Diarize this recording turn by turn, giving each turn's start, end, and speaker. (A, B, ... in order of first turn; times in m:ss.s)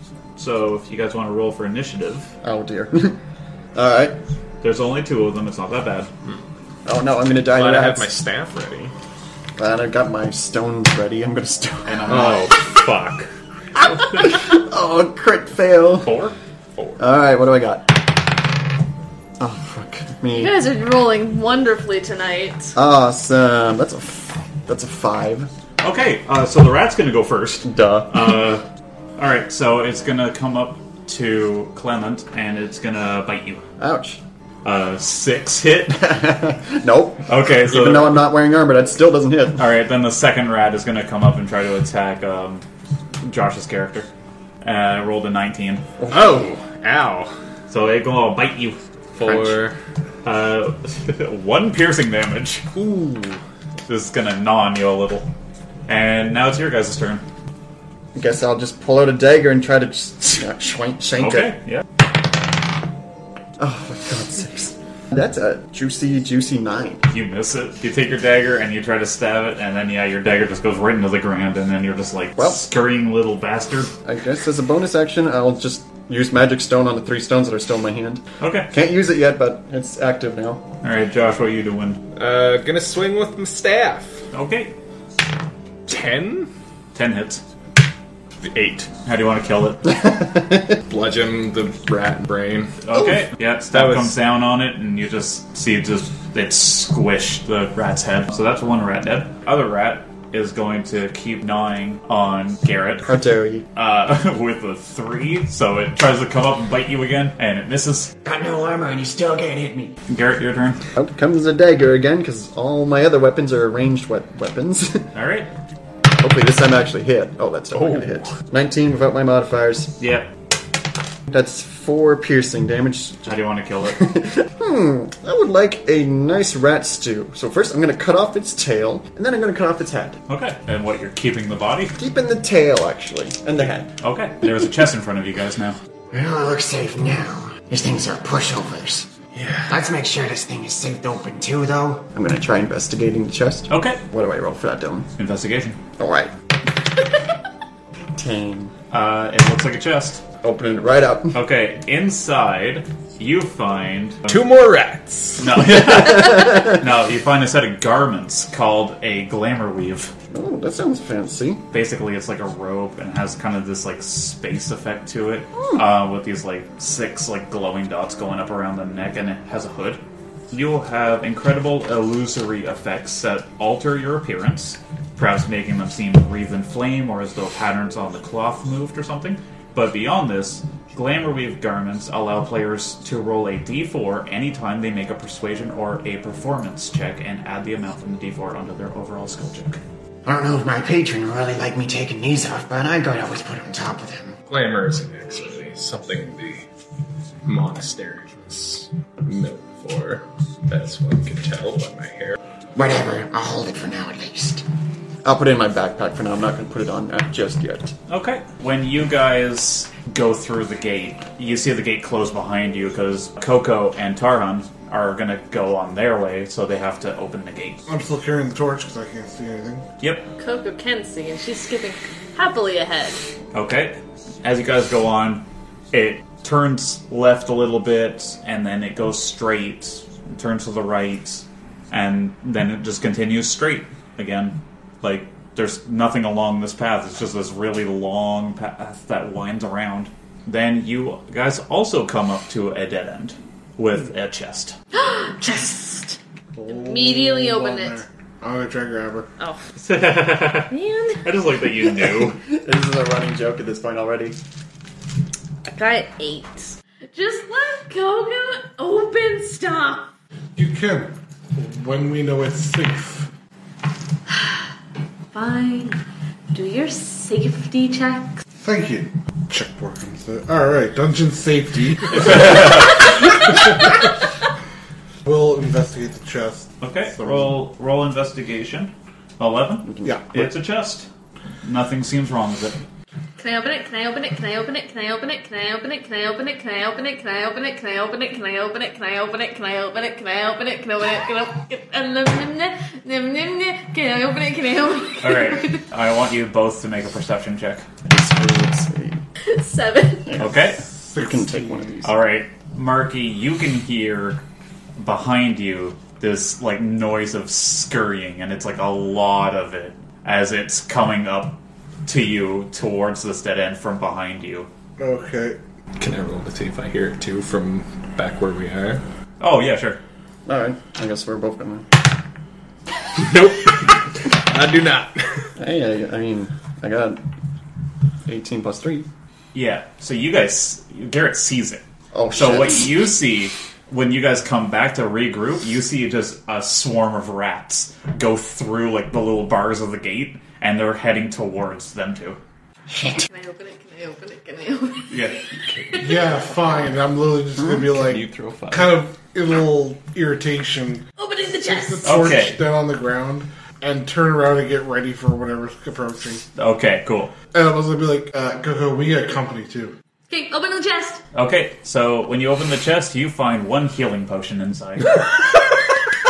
0:00.4-0:02.3 A
0:02.4-0:03.2 B
0:03.7-0:04.2 B
0:04.6-0:06.1 A
0:06.8-0:08.2 B
0:07.4-0:08.9 C
0:09.6-0:12.5 B
0:11.8-0:12.5 A
0:12.1-0:13.3 C
0:14.0-0:16.1 B
0:16.0-0:16.3 A
0:17.0-0:18.0 B
0:19.4-0:20.6 B
0:20.3-0:22.7 D
0:22.8-0:25.5 B
0:25.8-0:28.6 A
0:27.6-0:28.4 B
0:29.2-0:33.6 A
0:33.8-0:34.2 B
0:34.6-0:36.2 A
0:35.9-0:39.7 B
0:37.3-0:38.3 A
0:39.6-0:42.6 A
0:43.2-0:44.1 A
0:44.6-0:45.9 A
0:46.0-0:46.5 B
0:46.1-0:47.3 C
0:47.7-0:48.8 A
0:49.1-0:49.8 C
0:49.2-0:49.5 B
0:50.2-0:52.7 A
0:52.7-0:53.4 C
0:53.9-0:55.3 A
0:55.9-0:57.2 A
0:58.1-1:01.6 B
1:01.2-1:01.8 A
1:03.6-1:07.1 B
1:07.1-1:13.9 A
1:14.0-1:20.6 B
1:18.4-1:18.7 A
1:20.8-1:22.1 A
1:22.1-1:24.2 C
1:24.3-1:24.7 A
1:25.9-1:26.5 C
1:26.9-1:27.4 A
1:28.4-1:28.9 C
1:29.0-1:30.0 A
1:29.9-1:30.8 B
1:30.9-1:32.8 C
1:32.8-1:43.2 A
1:33.7-1:34.2 C
1:43.1-1:43.7 B
1:43.7-1:48.1 A
1:48.2-1:50.0 E
1:50.1-1:50.8 A
1:50.9-1:55.1 B
1:55.1-1:55.5 A
1:56.1-2:00.0 B
1:57.7-1:58.3 C
2:00.0-2:00.3 A
2:01.3-2:03.2 B
2:03.2-2:04.0 A
2:04.0-2:10.2 B
2:10.3-2:12.0 A
2:12.0-2:13.9 B
2:14.0-2:15.8 A
2:16.1-2:19.1 E
2:19.3-2:19.8 C
2:19.7-2:22.1 E
2:22.1-2:25.1 B
2:23.7-2:24.0 A
2:25.2-2:25.8 A
2:26.0-2:26.3 B
2:28.1-2:28.7 B
2:28.9-2:30.2 A
2:30.4-2:31.4 B
2:31.3-2:34.4 A
2:34.3-2:35.6 C
2:35.4-2:40.1 A
2:36.3-2:36.6 B
2:40.3-2:41.6 B
2:41.7-3:09.8 A
3:10.2-3:14.4 E
3:14.5-3:16.7 C
3:17.4-3:22.4 C
3:22.7-3:24.6 E
3:25.2-3:27.9 B
3:28.1-3:37.8 A
3:37.9-3:39.9 F
3:40.0-3:40.3 A
3:40.4-3:43.2 D
3:43.5-4:04.8 A
4:04.9-4:08.0 D
4:06.6-4:09.3 F
4:09.8-4:12.4 A
4:10.7-4:11.2 D
4:12.2-4:14.4 B
4:15.6-4:20.1 D
4:20.6-4:23.3 F
4:25.3-4:28.4 D
4:28.6-4:34.0 F
4:32.1-4:33.2 A
4:35.2-4:37.5 F
4:36.8-4:41.1 A
4:39.9-4:40.3 B
4:40.0-4:40.4 F
4:41.6-4:42.8 A
4:43.4-4:55.8 D
4:55.2-4:57.9 A
4:58.0-4:59.2 B
4:59.5-5:00.4 D
5:00.4-5:00.8 A
5:00.8-5:02.0 F
5:01.1-5:02.1 B
5:02.0-5:04.4 A
5:05.0-5:14.7 A
5:15.0-5:15.6 F
5:16.0-5:19.0 C
5:19.4-5:20.0 A
5:20.4-5:21.8 B
5:23.1-5:25.5 C
5:25.6-5:27.2 B
5:28.2-5:29.1 B
5:29.5-5:31.8 A
5:32.1-5:33.0 B
5:32.4-5:42.4 A
5:42.9-5:43.2 E
5:43.3-5:46.3 D
5:45.1-5:45.4 A
5:45.9-5:51.0 F
5:47.9-5:49.0 C
5:51.2-5:52.1 D
5:51.6-5:56.4 F
5:52.0-5:52.6 A
5:56.5-5:57.3 A
5:57.5-5:59.9 F
6:00.3-6:01.2 D
6:01.3-6:05.2 A